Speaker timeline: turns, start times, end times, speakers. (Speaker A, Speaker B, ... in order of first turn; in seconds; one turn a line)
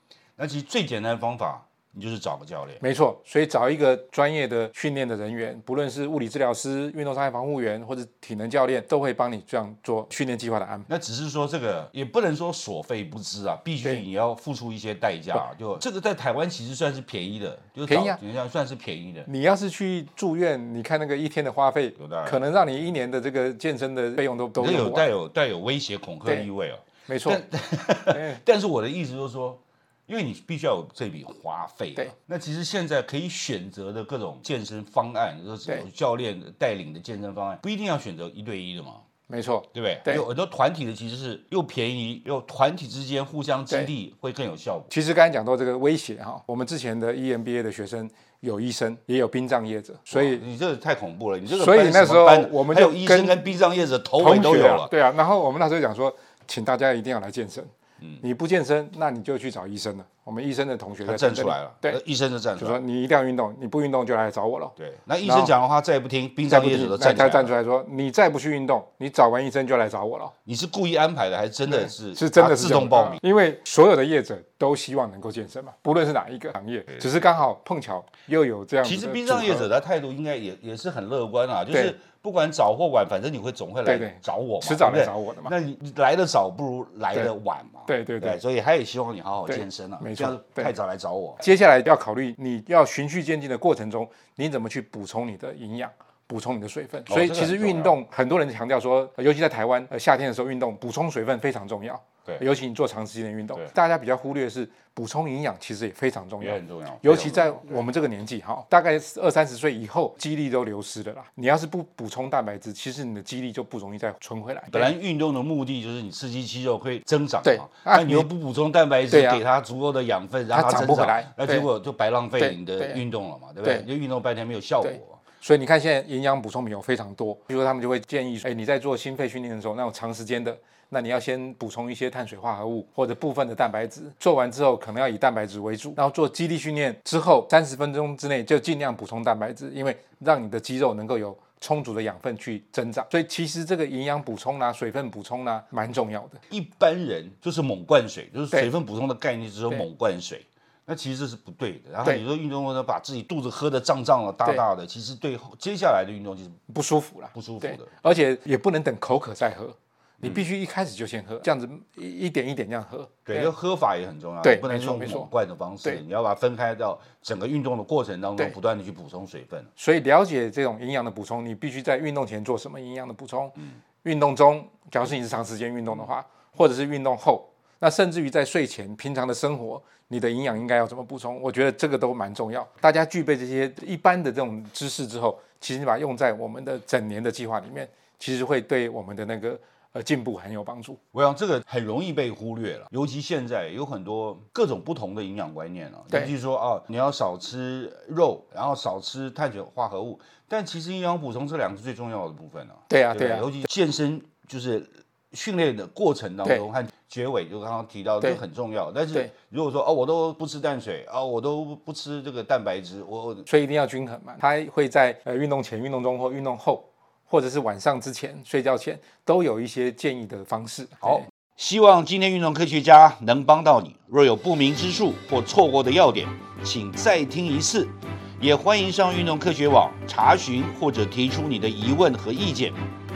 Speaker A: 0.4-2.8
Speaker B: 2.8-10.9
Speaker A: 10.9-19.3
Speaker B: 17.9-18.2
Speaker B: 19.3-25.1
Speaker A: 22.0-22.4
Speaker A: 24.6-39.0
Speaker B: 27.1-27.4
Speaker B: 28.1-28.4
Speaker B: 39.3-40.2
Speaker A: 39.7-44.9
Speaker B: 44.9-50.4
Speaker A: 50.1-54.9
Speaker B: 51.5-53.4
Speaker B: 54.2-62.0
Speaker A: 61.0-62.8
Speaker B: 62.6-65.5
Speaker A: 64.8-67.5
Speaker B: 66.5-70.3
Speaker A: 70.5-73.2
Speaker B: 71.7-79.7
Speaker A: 78.8-91.4
Speaker B: 83.8-85.5
Speaker B: 87.9-88.4
Speaker B: 89.5-90.7
Speaker B: 91.4-114.9
Speaker A: 97.1-98.0
Speaker A: 106.4-107.8
Speaker A: 114.7-125.2
Speaker B: 117.4-118.3
Speaker B: 119.1-119.4
Speaker B: 120.5-121.7
Speaker B: 122.4-123.0
Speaker B: 124.8-146.4
Speaker A: 146.5-156.6
Speaker B: 156.7-163.5
Speaker A: 157.3-157.9
Speaker A: 160.2-160.5
Speaker A: 163.3-169.7
Speaker B: 164.4-165.3
Speaker B: 169.8-191.0
Speaker A: 191.1-213.5
Speaker B: 202.9-203.5
Speaker B: 213.5-221.3
Speaker A: 221.0-232.8